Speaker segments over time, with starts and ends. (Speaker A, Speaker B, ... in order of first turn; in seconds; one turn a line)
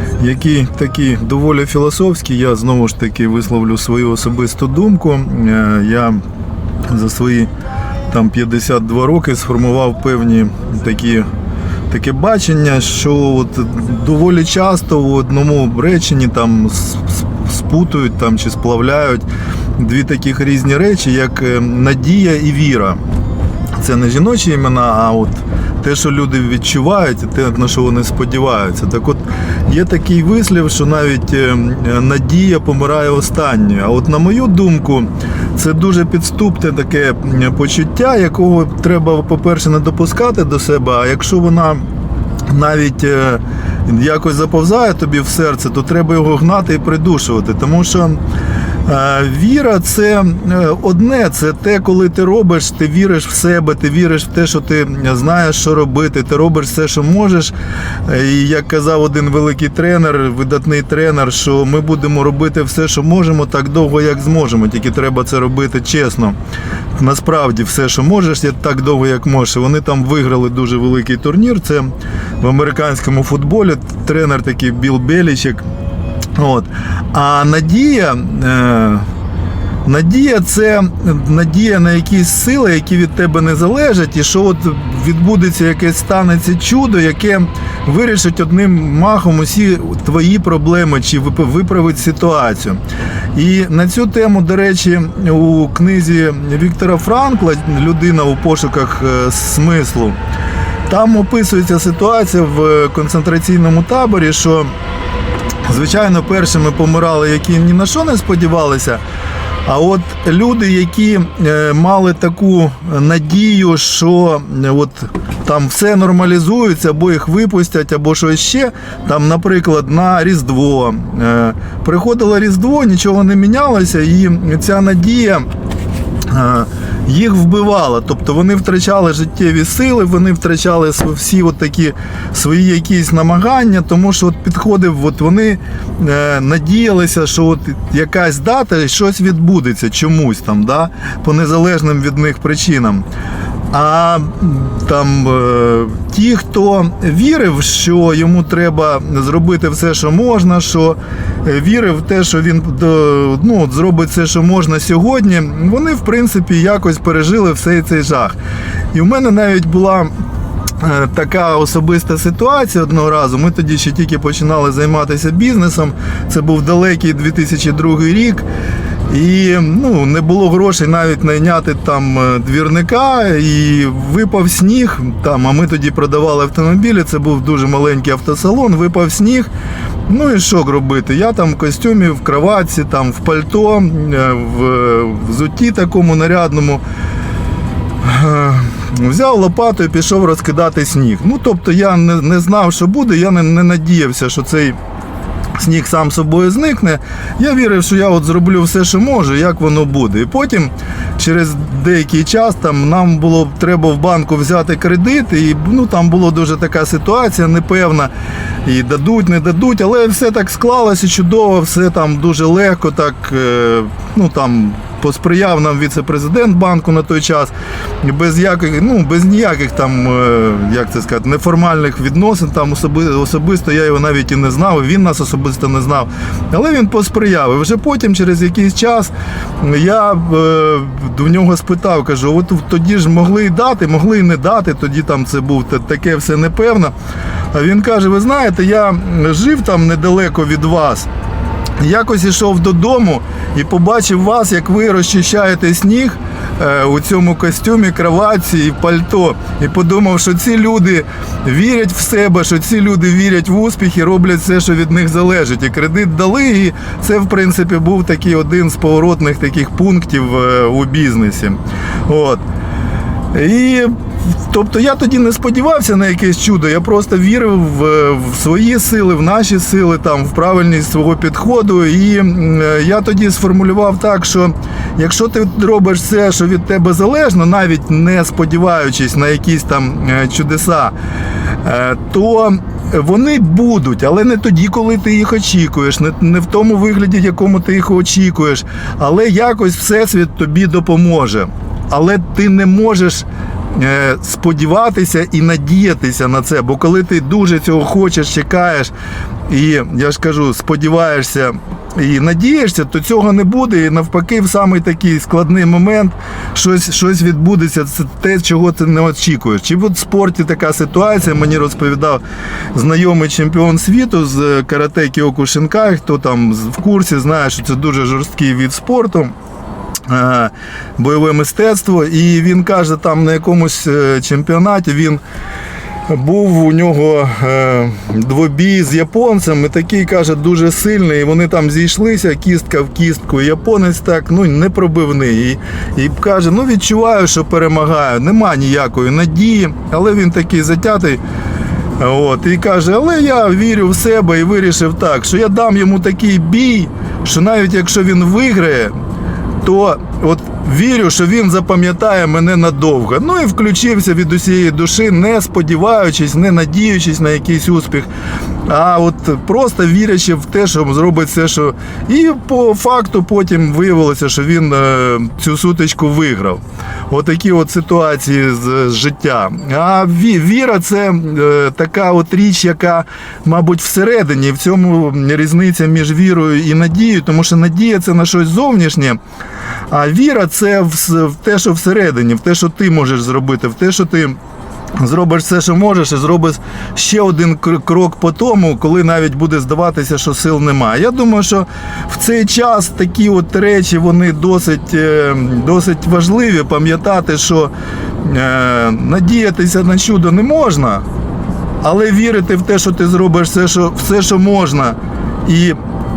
Speaker A: 0.2-6.2
Speaker A: 6.9-7.5
Speaker A: 8.1-11.3
Speaker A: 11.9-19.2
Speaker A: 19.8-23.0
Speaker A: 23.8-41.8
Speaker A: 42.5-48.2
Speaker A: 48.9-57.5
Speaker A: 58.0-66.4
Speaker A: 67.0-75.7
Speaker A: 76.4-79.1
Speaker A: 79.8-92.8
Speaker A: 93.3-100.2
Speaker A: 100.9-104.7
Speaker A: 105.7-109.0
Speaker A: 109.7-125.5
Speaker A: 126.3-143.1
Speaker A: 143.7-158.4
Speaker A: 158.9-160.1
Speaker A: 160.8-168.4
Speaker A: 169.1-179.5
Speaker A: 180.1-186.8
Speaker A: 188.0-194.8
Speaker A: 195.6-208.1
Speaker A: 208.6-236.9
Speaker A: 237.5-241.1
Speaker A: 241.8-262.4
Speaker A: 263.3-263.9
Speaker A: 264.5-280.9
Speaker A: 281.6-298.9
Speaker A: 299.5-312.2
Speaker A: 312.7-319.3
Speaker A: 320.1-325.2
Speaker A: 326.1-341.2
Speaker A: 342.0-348.9
Speaker A: 349.6-358.1
Speaker A: 358.7-379.2
Speaker A: 379.9-384.4
Speaker A: 385.0-401.1
Speaker A: 401.8-405.8